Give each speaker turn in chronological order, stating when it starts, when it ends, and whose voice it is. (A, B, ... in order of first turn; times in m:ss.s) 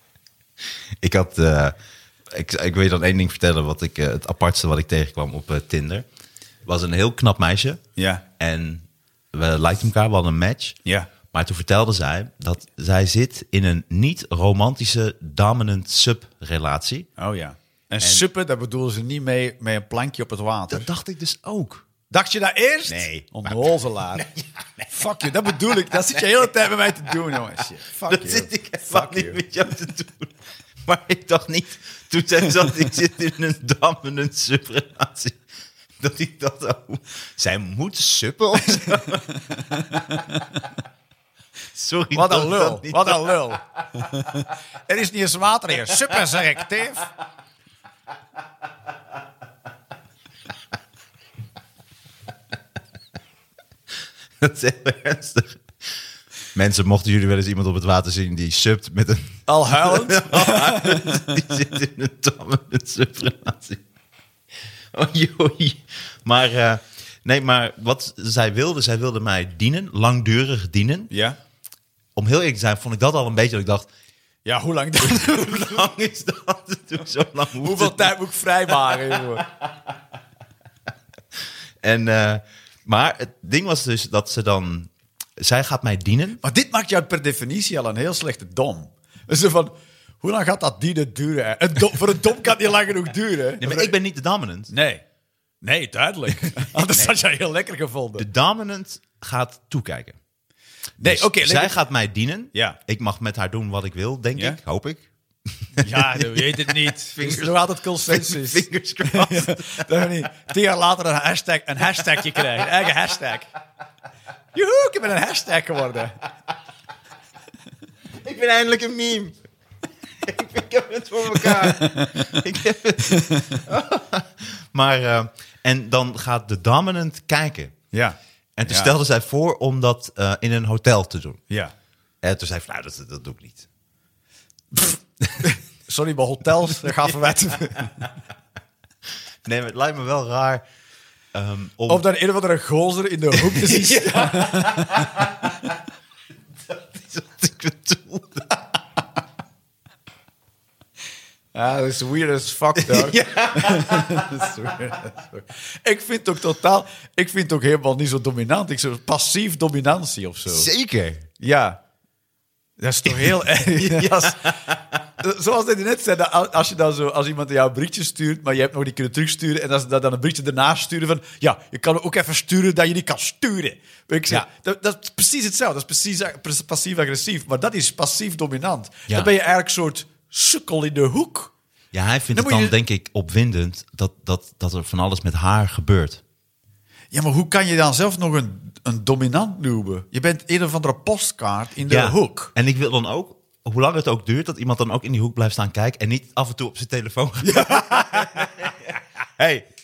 0:01.0-0:01.8 A
0:02.3-0:06.1 A
0:06.6-0:07.8 A
0:08.0-0:08.2 B
0:08.4-0:10.8 A
0:10.8-0:11.1 B
0:11.3-0:17.1 A
0:17.2-0:20.9 B
0:18.0-0:18.2 A
0:20.7-0:21.8 A
0:22.1-0:24.2 B
0:22.9-0:24.9 A
0:24.9-0:29.4 B
0:28.1-0:35.4 A
0:36.0-0:39.3 A
0:39.6-0:40.5 B
0:41.7-0:43.4 A
0:42.1-0:47.1 B
0:54.4-0:55.6 A
0:56.6-1:03.8 A
0:59.5-1:01.4 B
1:04.9-1:11.1 A
1:11.1-1:11.4 B
1:12.2-1:13.9 A
1:14.4-1:15.7 B
1:15.0-1:18.1 A
1:17.6-1:19.4 B
1:19.1-1:19.7 A
1:21.8-1:26.4 A
1:26.4-1:34.0 B
1:33.6-1:34.7 A
1:34.7-1:35.0 B
1:35.6-1:38.3 B
1:36.5-1:37.2 A
1:38.2-1:40.2 A
1:41.0-1:41.8 B
1:41.0-1:49.9 A
1:45.8-1:53.5 B
1:54.5-1:56.2 B
1:58.2-1:59.4 A
2:00.2-2:07.8 A
2:01.6-2:02.1 B
2:03.1-2:03.6 B
2:07.9-2:08.9 B
2:08.6-2:11.4 A
2:12.2-2:13.7 A
2:14.7-2:18.1 B
2:19.4-2:20.6 A
2:21.3-2:22.0 A
2:21.9-2:25.3 B
2:23.3-2:25.5 A
2:26.7-2:28.6 A
2:31.5-2:40.7 B
2:32.8-2:34.7 A
2:40.5-2:41.3 A
2:41.4-2:41.8 B
2:42.8-2:44.6 B
2:43.1-2:45.0 A
2:45.2-3:01.5 B
3:01.9-3:06.2 A
3:02.3-3:02.8 B
3:07.1-3:12.5 B
3:11.9-3:19.7 A
3:17.4-3:18.7 B